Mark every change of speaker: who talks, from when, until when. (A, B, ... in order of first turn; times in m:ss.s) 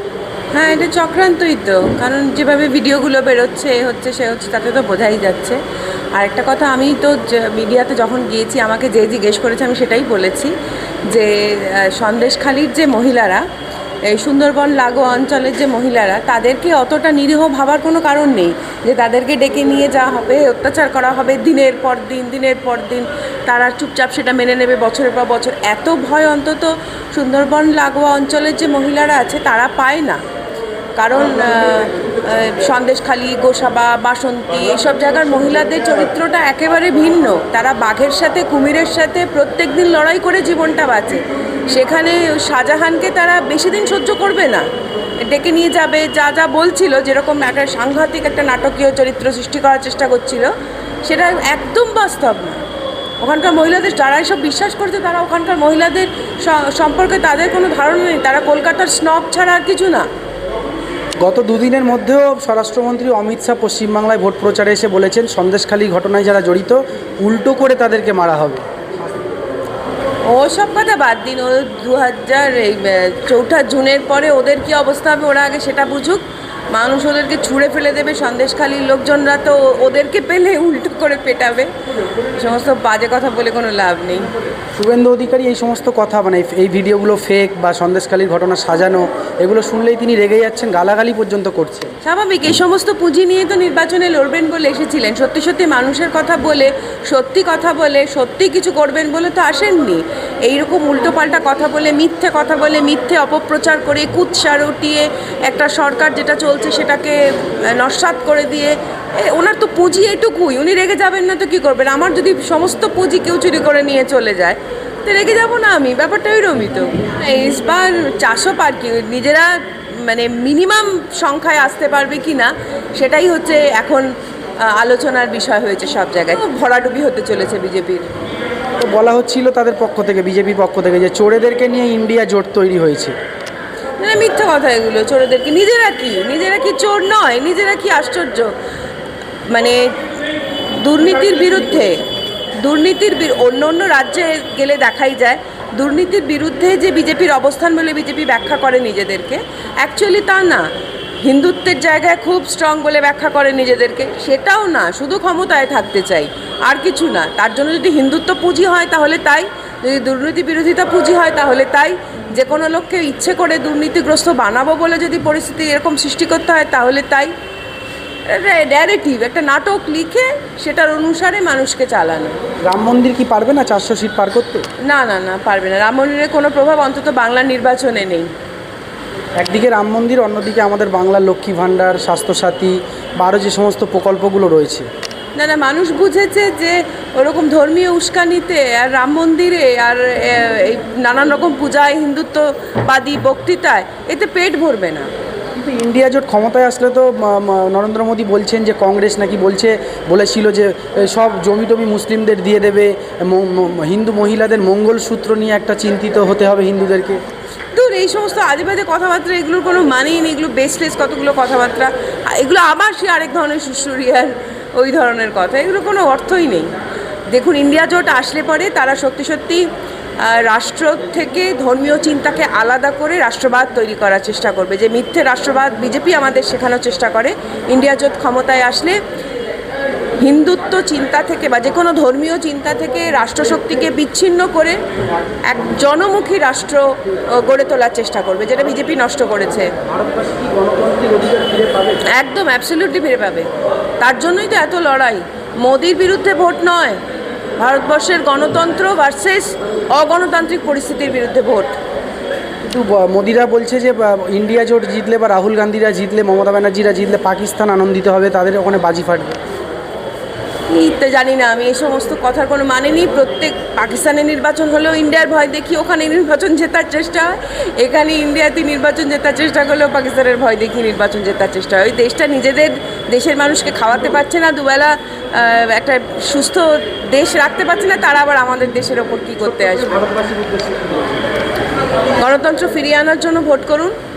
0:00.5-0:05.6 A
0:06.1-0:10.5 A
0:11.1-0:13.4 A
0:14.1-0:30.2 A
0:31.0-0:44.7 A
0:45.2-0:50.5 A
0:51.0-0:52.6 A
0:53.2-1:00.1 A
1:01.2-1:08.6 B
1:10.3-1:21.7 A
1:22.4-1:24.3 A
1:24.8-1:31.9 B
1:32.0-2:08.1 A
2:08.8-2:13.2 B
2:14.0-2:18.6 A
2:19.5-2:20.1 A
2:20.8-2:22.1 A
2:22.6-2:30.7 A
2:31.2-2:47.3 A
2:48.3-2:52.4 A
2:52.6-2:54.6 B
2:54.8-2:58.3 A
2:59.4-3:04.9 B
3:05.4-3:15.1 A
3:15.6-3:27.2 B
3:27.7-3:36.7 A
3:37.3-3:39.7 A
3:40.2-3:49.0 A
3:50.2-3:54.8 A
3:55.4-3:59.8 A
3:59.8-4:02.0 B
4:02.0-4:03.5 A
4:04.0-4:07.0 A
4:07.6-4:11.8 A
4:12.6-4:19.4 B
4:20.7-4:40.1 A
4:40.0-4:41.0 B
4:42.2-4:44.0 A